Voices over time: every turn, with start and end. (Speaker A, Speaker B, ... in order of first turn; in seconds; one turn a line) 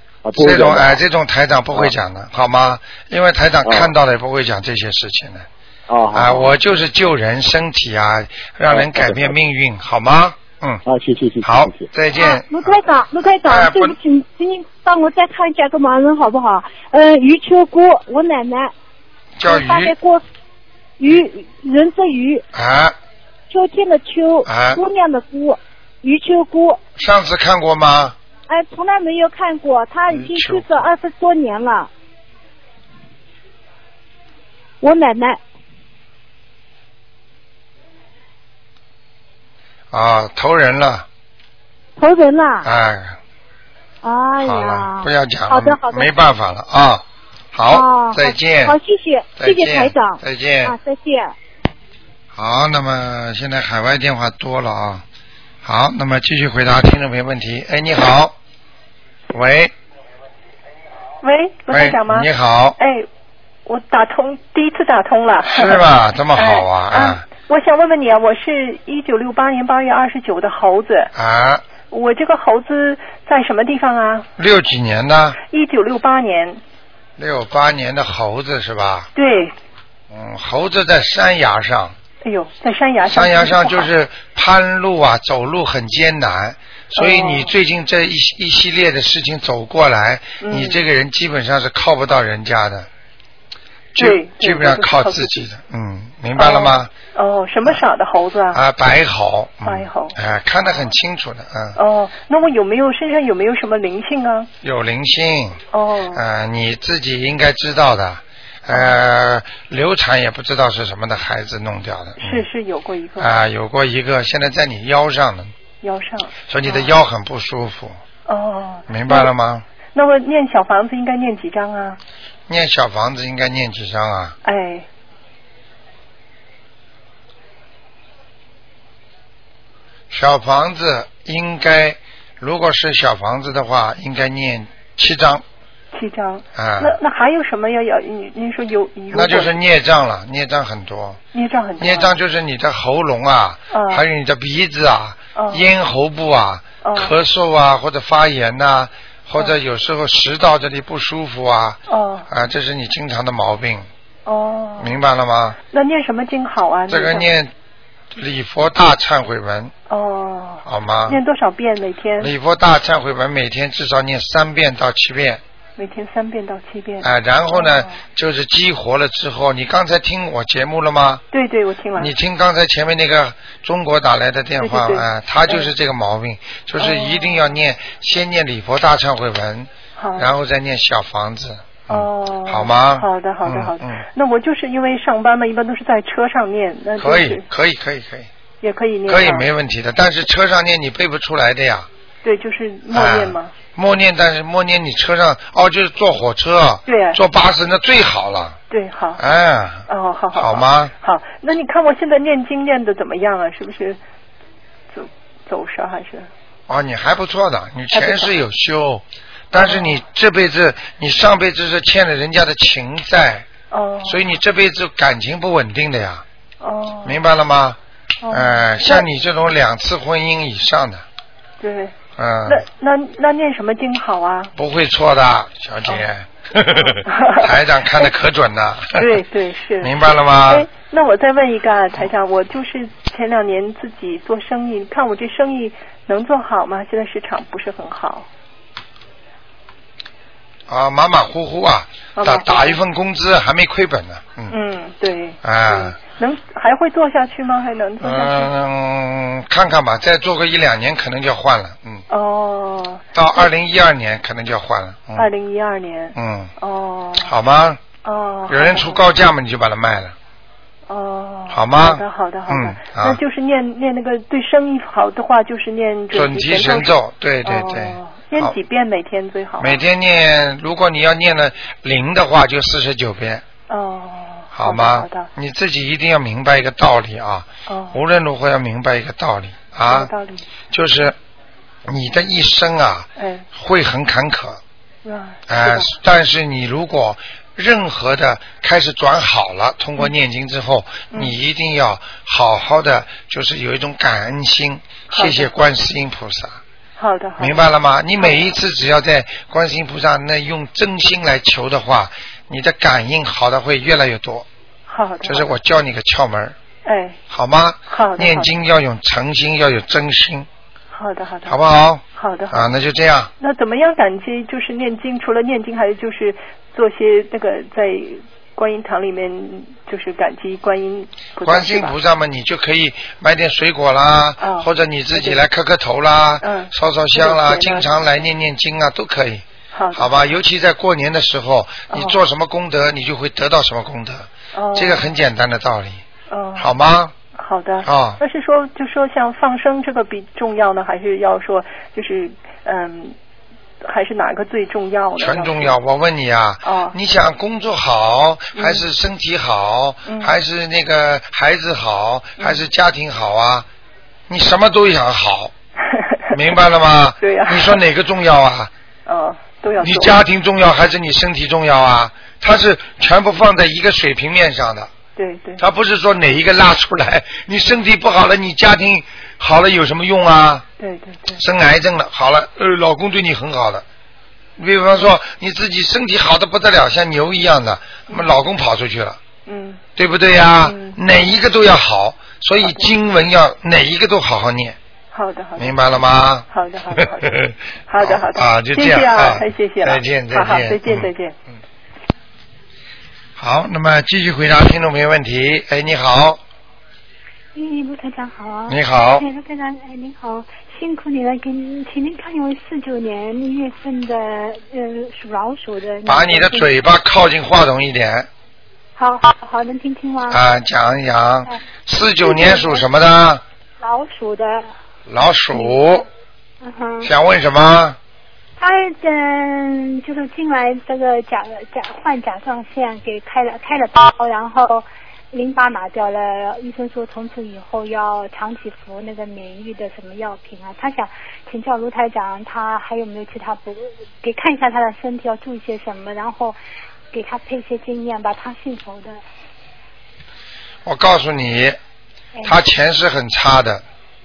Speaker A: 0.2-1.0
Speaker B: 0.3-5.5
Speaker A: 3.6-3.9
Speaker A: 5.9-6.6
Speaker B: 6.1-10.8
Speaker A: 8.7-9.3
Speaker A: 10.9-11.9
Speaker B: 11.4-12.8
Speaker C: 12.2-18.7
Speaker B: 13.4-14.0
Speaker B: 19.4-19.9
Speaker C: 19.4-20.2
Speaker C: 21.0-22.4
Speaker B: 22.5-23.0
Speaker C: 23.5-26.8
Speaker B: 24.5-24.8
Speaker B: 27.0-28.2
Speaker C: 28.5-31.9
Speaker B: 30.1-30.7
Speaker C: 34.8-35.4
Speaker B: 39.9-41.1
Speaker C: 42.0-42.7
Speaker B: 42.6-43.2
Speaker C: 44.0-46.1
Speaker B: 44.4-48.8
Speaker C: 47.7-51.3
Speaker B: 49.4-50.8
Speaker B: 52.3-55.0
Speaker B: 55.6-58.4
Speaker B: 59.3-59.7
Speaker D: 61.2-63.1
Speaker B: 61.7-62.8
Speaker D: 63.7-71.1
Speaker B: 65.5-67.2
Speaker B: 71.2-71.6
Speaker D: 71.9-74.3
Speaker B: 74.4-75.4
Speaker D: 75.5-76.6
Speaker B: 77.2-79.1
Speaker D: 79.2-79.5
Speaker B: 80.1-82.0
Speaker D: 82.2-83.9
Speaker B: 83.1-92.9
Speaker D: 87.0-87.5
Speaker D: 90.4-90.8
Speaker B: 94.0-96.9
Speaker D: 94.0-95.4
Speaker D: 96.4-98.6
Speaker B: 98.5-101.8
Speaker D: 99.6-100.2
Speaker D: 101.8-104.5
Speaker B: 104.6-105.6
Speaker D: 105.7-106.2
Speaker B: 106.1-112.5
Speaker D: 108.7-109.0
Speaker D: 112.2-113.4
Speaker B: 113.2-115.5
Speaker D: 115.8-116.9
Speaker B: 116.5-118.0
Speaker D: 118.3-119.3
Speaker B: 118.9-119.7
Speaker D: 119.9-122.0
Speaker B: 122.5-124.4
Speaker D: 124.4-124.9
Speaker B: 130.1-135.4
Speaker D: 135.9-139.5
Speaker B: 136.6-137.0
Speaker B: 139.1-141.2
Speaker D: 141.3-142.2
Speaker B: 141.8-153.9
Speaker D: 143.7-144.0
Speaker D: 145.3-145.7
Speaker D: 146.8-147.1
Speaker D: 151.9-152.3
Speaker D: 154.3-154.9
Speaker B: 154.8-155.6
Speaker D: 155.7-157.3
Speaker B: 156.9-157.5
Speaker B: 158.1-159.7
Speaker D: 159.9-162.3
Speaker B: 160.7-161.2
Speaker B: 162.2-165.4
Speaker D: 165.8-168.0
Speaker B: 167.0-171.2
Speaker D: 171.3-172.1
Speaker B: 171.9-184.0
Speaker D: 174.6-175.7
Speaker D: 176.8-177.5
Speaker D: 180.0-180.3
Speaker D: 181.9-187.4
Speaker B: 187.0-188.3
Speaker D: 188.6-189.5
Speaker B: 189.1-191.9
Speaker D: 192.2-193.5
Speaker B: 192.9-198.6
Speaker D: 196.9-197.2
Speaker D: 198.7-199.3
Speaker B: 199.2-200.9
Speaker D: 199.9-204.0
Speaker D: 204.9-206.3
Speaker B: 206.7-213.5
Speaker D: 207.9-208.4
Speaker D: 209.5-210.0
Speaker D: 213.7-214.2
Speaker B: 214.1-216.2
Speaker D: 216.6-217.2
Speaker B: 217.0-217.8
Speaker D: 218.2-219.1
Speaker B: 218.3-221.0
Speaker D: 221.6-221.9
Speaker B: 222.2-222.7
Speaker D: 222.5-224.5
Speaker B: 224.6-229.2
Speaker D: 226.8-228.1
Speaker D: 229.0-229.9
Speaker B: 229.8-230.7
Speaker D: 230.5-238.3
Speaker B: 240.7-244.6
Speaker D: 242.2-242.8
Speaker D: 244.5-248.5
Speaker B: 245.4-246.0
Speaker B: 248.0-252.0
Speaker D: 252.1-253.1
Speaker B: 253.2-255.3
Speaker D: 255.2-257.3
Speaker B: 256.2-256.5
Speaker B: 257.2-257.8
Speaker D: 258.0-259.0
Speaker B: 258.5-260.1
Speaker D: 260.9-269.8
Speaker B: 261.5-263.2
Speaker B: 266.1-268.6
Speaker B: 269.6-273.4
Speaker D: 273.7-275.3
Speaker B: 274.5-280.1
Speaker D: 277.7-278.0
Speaker D: 279.9-280.5
Speaker B: 280.7-281.2
Speaker B: 281.9-284.6
Speaker D: 283.2-283.5
Speaker D: 285.0-285.9
Speaker B: 285.5-296.6
Speaker D: 295.1-295.5
Speaker D: 297.0-297.6
Speaker B: 297.4-304.5
Speaker D: 298.2-298.6
Speaker D: 304.9-305.5
Speaker B: 305.2-306.6
Speaker D: 306.9-307.2
Speaker B: 307.3-310.5
Speaker D: 307.9-308.6
Speaker D: 310.9-311.6
Speaker B: 311.5-313.3
Speaker D: 312.1-312.7
Speaker D: 313.4-321.9
Speaker B: 321.4-336.0
Speaker D: 324.4-325.4
Speaker D: 326.4-328.0
Speaker D: 329.7-330.2
Speaker D: 331.9-332.2
Speaker D: 334.5-335.1
Speaker D: 336.3-336.7
Speaker B: 336.6-337.1
Speaker D: 337.4-343.2
Speaker B: 337.8-338.2
Speaker D: 343.8-345.8
Speaker B: 345.2-353.7
Speaker D: 346.6-347.0
Speaker D: 348.6-348.9
Speaker D: 350.1-350.4
Speaker D: 352.4-352.7
Speaker B: 354.3-355.5
Speaker D: 355.8-356.6
Speaker B: 356.3-358.7
Speaker D: 357.2-357.8
Speaker D: 359.1-360.2
Speaker B: 359.8-364.9
Speaker D: 365.2-365.6
Speaker B: 365.6-370.6
Speaker D: 370.8-371.4
Speaker B: 371.4-373.9
Speaker B: 374.6-379.2
Speaker D: 379.5-379.8
Speaker B: 380.0-384.8
Speaker D: 380.6-381.0
Speaker D: 382.6-382.9
Speaker D: 385.1-385.8
Speaker B: 385.6-386.5
Speaker D: 386.5-391.3
Speaker B: 387.0-391.1
Speaker B: 393.4-396.4
Speaker E: 397.6-406.7
Speaker B: 398.7-399.2
Speaker B: 406.1-408.3
Speaker E: 409.0-410.4
Speaker B: 410.3-413.4
Speaker E: 412.2-412.9
Speaker E: 413.8-414.7
Speaker B: 415.1-416.1
Speaker E: 415.5-416.1
Speaker E: 416.6-417.1
Speaker B: 417.0-418.0
Speaker E: 418.6-436.6
Speaker E: 437.1-439.2
Speaker B: 440.9-441.8
Speaker B: 442.4-443.8